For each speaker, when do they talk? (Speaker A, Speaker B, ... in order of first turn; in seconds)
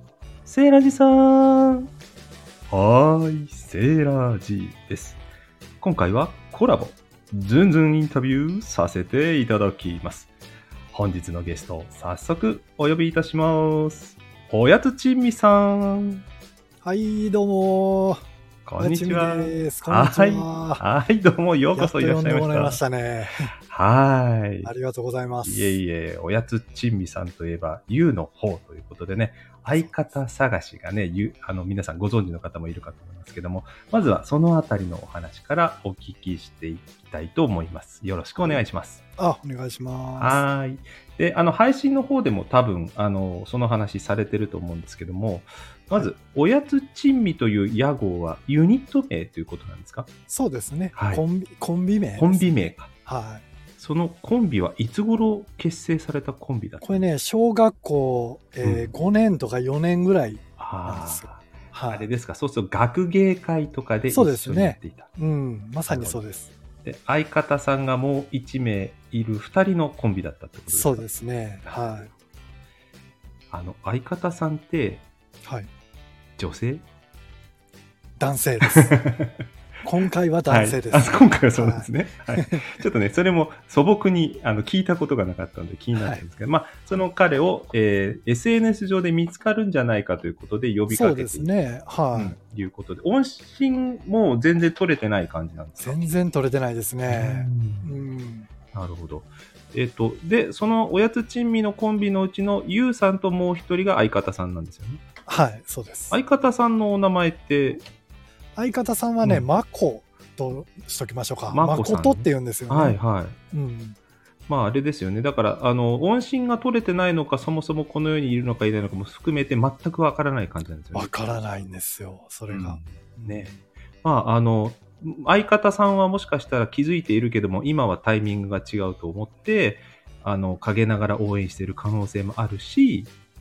Speaker A: 0.4-1.9, 2.7-5.2, 5.8-10.3, 10.9-16.2, 18.6-22.8, 23.6-24.7, 25.4-39.0, 40.2-50.1, 50.9-51.2, 52.2-52.9, 53.8-57.0, 58.6-58.9, 60.6-65.1, 65.9-66.2, 66.8-71.1, 71.6-71.9, 73.5-75.0, 76.4-76.8, 78.8-79.3, 80.5-91.5, 92.1-96.1, 97.1-98.0, 98.7-105.0, 106.1-107.8, 111.5-113.4, 114.5-121.7, 122.5-133.1
Speaker B: 16.8-18.2, 18.8-20.8, 21.7-23.5, 24.6-25.8, 29.7-30.1, 38.3-38.6, 39.2-40.4, 50.3-53.4, 56.8-62.1, 64.1-66.5, 70.7-72.1, 75.4-75.7, 78.2-79.0, 79.8-82.7, 85.9-86.2, 90.9-92.4, 95.8-98.5, 105.3-106.2, 108.6-113.0, 113.5-114.0, 120.9-123.6